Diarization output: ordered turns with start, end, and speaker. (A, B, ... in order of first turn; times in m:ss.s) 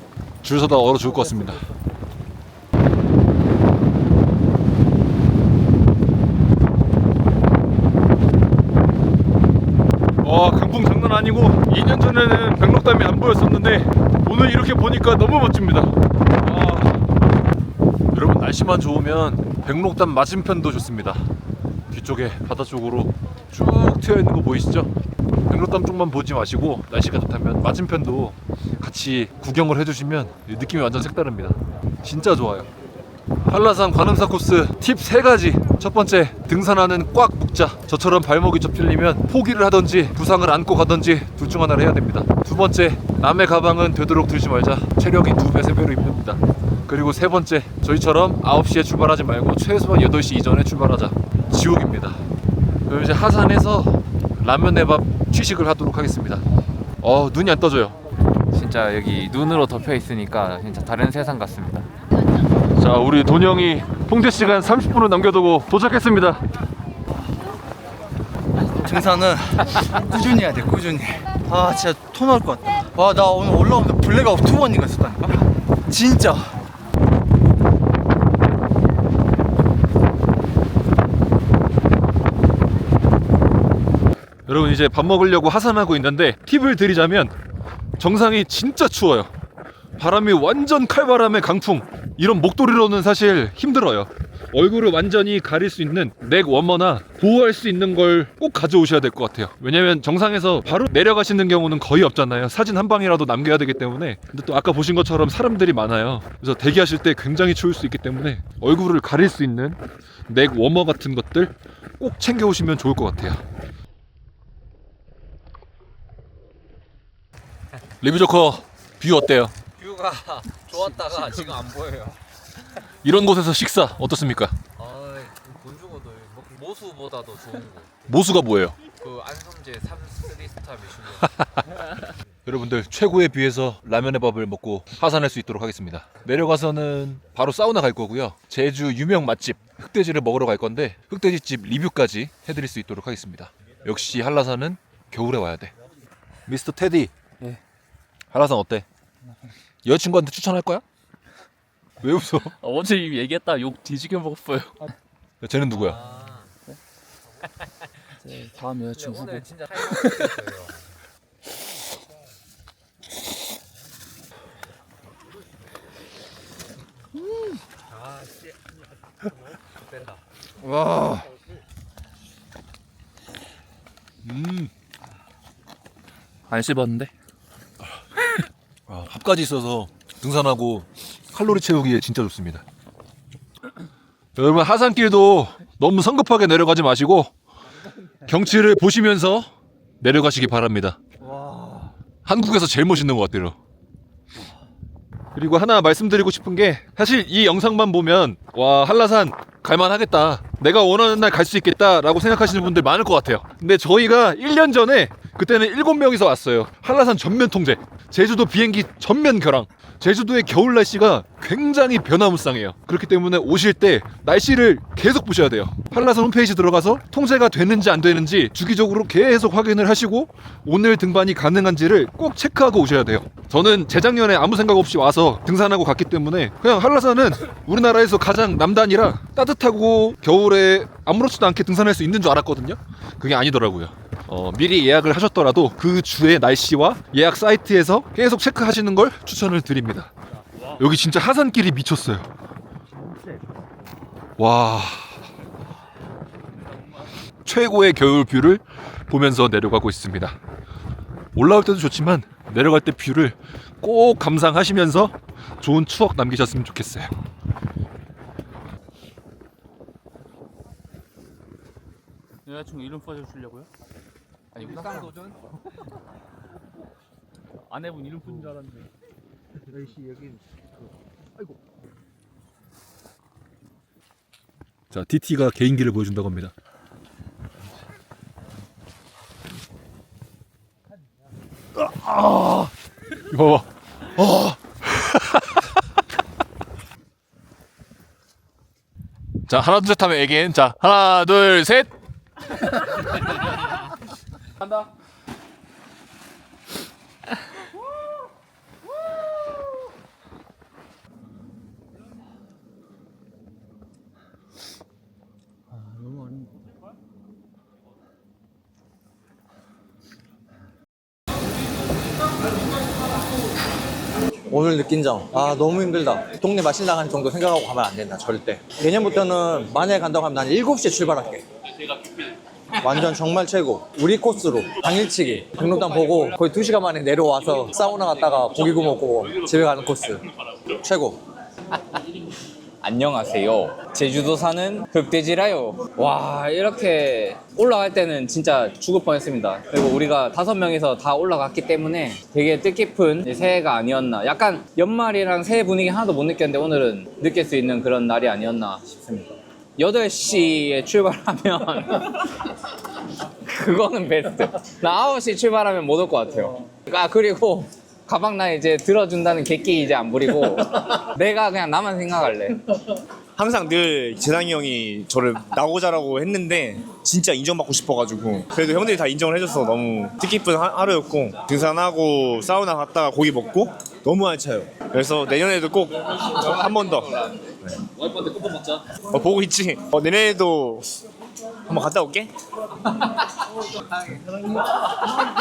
0:00.4-0:01.7 A
0:10.2-0:17.0 A
0:18.1-0:21.3 A
0:21.9-0:24.9 A
0:25.5-0:32.7 A
0:33.4-0:52.2 A
0:52.9-0:56.4 A
0:57.0-0:58.0 A
0:58.5-1:01.9 B
1:02.8-1:06.4 A
1:08.8-1:16.4 C
1:24.5-1:27.4 A
1:28.0-1:29.3 A
1:30.0-1:53.4 A
1:58.0-1:59.6 A
1:59.8-2:02.2 B
2:03.0-2:04.6 A
2:04.8-2:07.9 B
2:08.0-2:08.8 A
2:09.0-2:11.3 B
2:12.4-2:25.7 A
2:26.5-2:27.1 A
2:28.3-2:28.9 A
2:29.8-2:30.8 A
2:32.0-2:32.6 A
2:32.6-2:34.9 D
2:35.4-2:36.1 A
2:36.0-2:36.5 B
2:38.2-2:40.5 D
2:39.3-2:39.8 B
2:40.4-2:40.7 B
2:50.6-2:51.3 C
2:54.2-2:54.7 A
2:56.5-2:57.1 D
2:58.9-3:02.6 A
3:04.4-3:07.3 A
3:08.2-3:09.5 A
3:10.0-3:11.0 A
3:11.4-3:11.8 C
3:12.2-3:13.6 A
3:15.3-4:00.1 A
4:00.7-4:02.3 A
4:04.4-4:05.2 A
4:07.4-4:10.4 A
4:11.4-4:17.1 A
4:22.5-4:23.7 D
4:24.6-4:25.4 D
4:27.7-4:28.9 D
4:34.9-4:36.5 A
4:42.2-4:42.7 A
4:43.2-4:45.7 A
4:49.5-4:51.9 A
5:14.5-5:21.4 C
5:22.8-5:31.2 C
5:32.8-5:52.5 B
5:53.4-6:02.6 B
6:03.4-6:17.7 E
6:19.0-6:20.9 E
6:21.7-6:22.3 E